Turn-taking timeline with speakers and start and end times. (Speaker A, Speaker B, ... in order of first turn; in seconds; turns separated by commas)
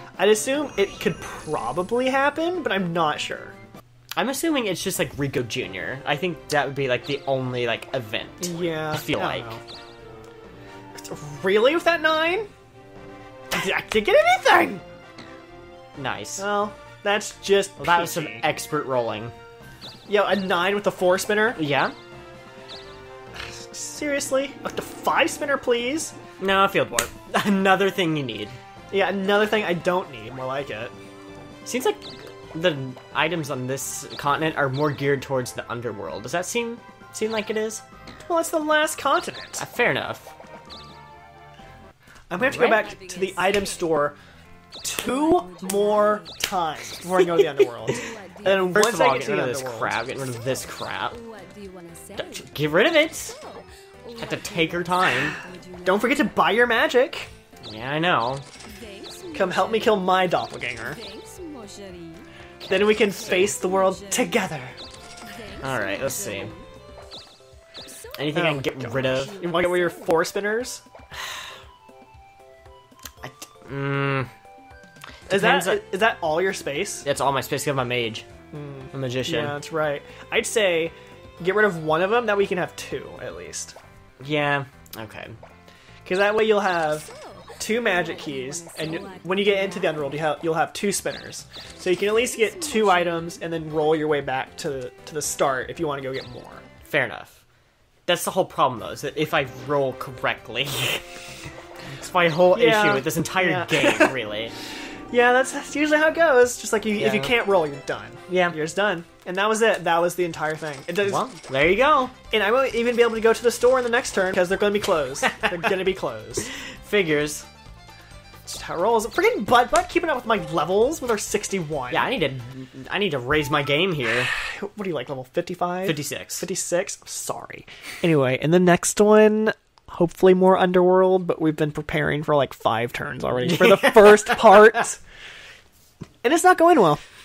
Speaker A: 0.2-3.5, Speaker B: 4.1-9.5, Speaker A: 8.4-9.6, Speaker A: 10.9-12.5, Speaker A: 13.5-14.8, Speaker B: 15.9-16.4, Speaker A: 16.4-18.4, Speaker B: 17.8-19.3, Speaker A: 20.1-21.6, Speaker B: 21.6-21.9, Speaker A: 23.4-26.1, Speaker B: 26.4-28.6, Speaker A: 28.9-30.9, Speaker B: 31.6-37.8, Speaker A: 38.2-39.6, Speaker B: 39.6-40.3, Speaker A: 42.3-44.1, Speaker B: 42.4-43.0, Speaker A: 44.8-50.0, Speaker C: 45.1-46.2, Speaker C: 47.9-48.7, Speaker B: 48.4-51.2, Speaker C: 51.1-52.4, Speaker B: 52.1-53.3, Speaker C: 53.3-56.2, Speaker B: 54.2-55.4, Speaker A: 55.8-57.3, Speaker B: 57.6-58.4, Speaker C: 58.7-60.0, Speaker A: 59.3-61.0, Speaker C: 60.9-62.2, Speaker A: 62.6-64.8, Speaker B: 62.7-63.5, Speaker C: 62.9-64.3, Speaker C: 65.2-66.6, Speaker B: 65.6-66.5, Speaker B: 68.2-69.4, Speaker A: 68.3-70.8, Speaker C: 68.9-70.1, Speaker B: 73.2-74.3, Speaker B: 75.3-75.8, Speaker A: 75.3-77.1, Speaker B: 77.0-78.2, Speaker A: 78.5-83.8, Speaker B: 78.9-79.6, Speaker B: 84.2-85.3, Speaker A: 86.0-96.6, Speaker C: 87.8-89.5, Speaker B: 96.8-97.4, Speaker B: 98.1-101.0, Speaker B: 101.9-104.5, Speaker A: 102.5-104.2, Speaker A: 105.1-111.3, Speaker B: 107.0-107.3, Speaker B: 108.3-108.5, Speaker B: 111.0-112.2, Speaker A: 112.2-116.5, Speaker B: 115.3-115.5, Speaker B: 116.8-117.5, Speaker A: 118.5-122.1, Speaker B: 121.9-124.3, Speaker A: 124.3-135.0, Speaker B: 125.8-126.4, Speaker B: 133.5-134.7, Speaker A: 136.2-137.0